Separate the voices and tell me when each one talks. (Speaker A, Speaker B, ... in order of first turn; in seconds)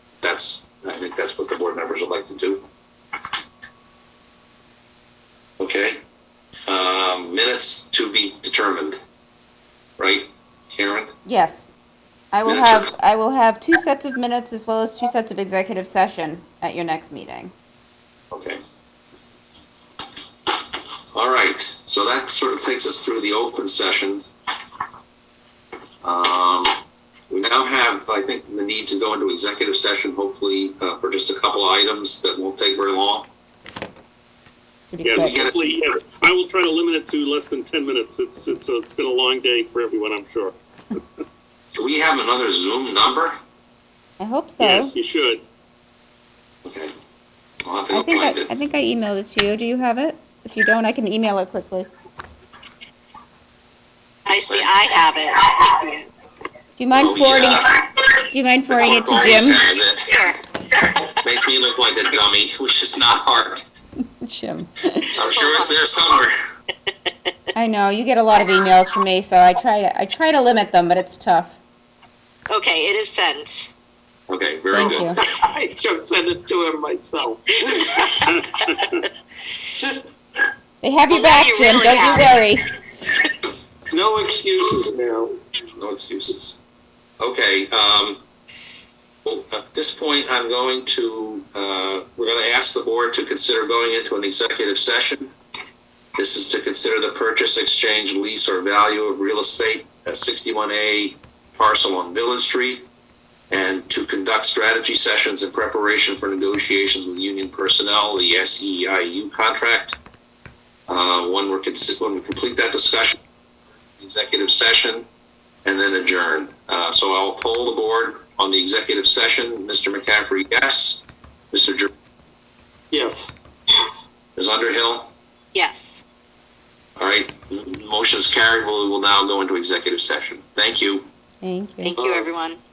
Speaker A: 0.2-2.6, 5.6-6.0, 6.7-9.0, 10.0-11.1, 12.4-12.9, 18.3-18.6, 21.1-24.2, 26.0-26.8, 27.3-33.3, 35.1-36.0, 41.8-43.4, 46.6-46.9, 47.6-48.5, 54.5-54.7, 56.9-57.7, 58.7-60.1, 61.1-63.6, 65.1-66.3, 74.3-75.2, 85.8-86.6, 87.2-88.2, 89.2-95.3, 96.2-102.8, 103.5-110.0, 110.9-113.2, 113.9-115.0, 115.6-121.9, 124.3-125.1, 127.0-131.1
Speaker B: 11.2-11.7, 12.3-17.5, 34.9-35.4, 44.2-44.9, 47.9-51.9, 56.8-59.7, 64.2-65.1, 67.5-71.5, 74.7-75.2, 80.8-82.8, 131.4-131.9
Speaker C: 35.0-41.0, 44.6-45.4, 74.8-77.4, 83.9-85.4, 122.9-123.3
Speaker D: 54.2-56.0, 60.1-60.4, 65.3-65.8, 72.5-73.7, 77.8-78.1, 81.1-82.3, 125.5-126.0, 131.8-132.6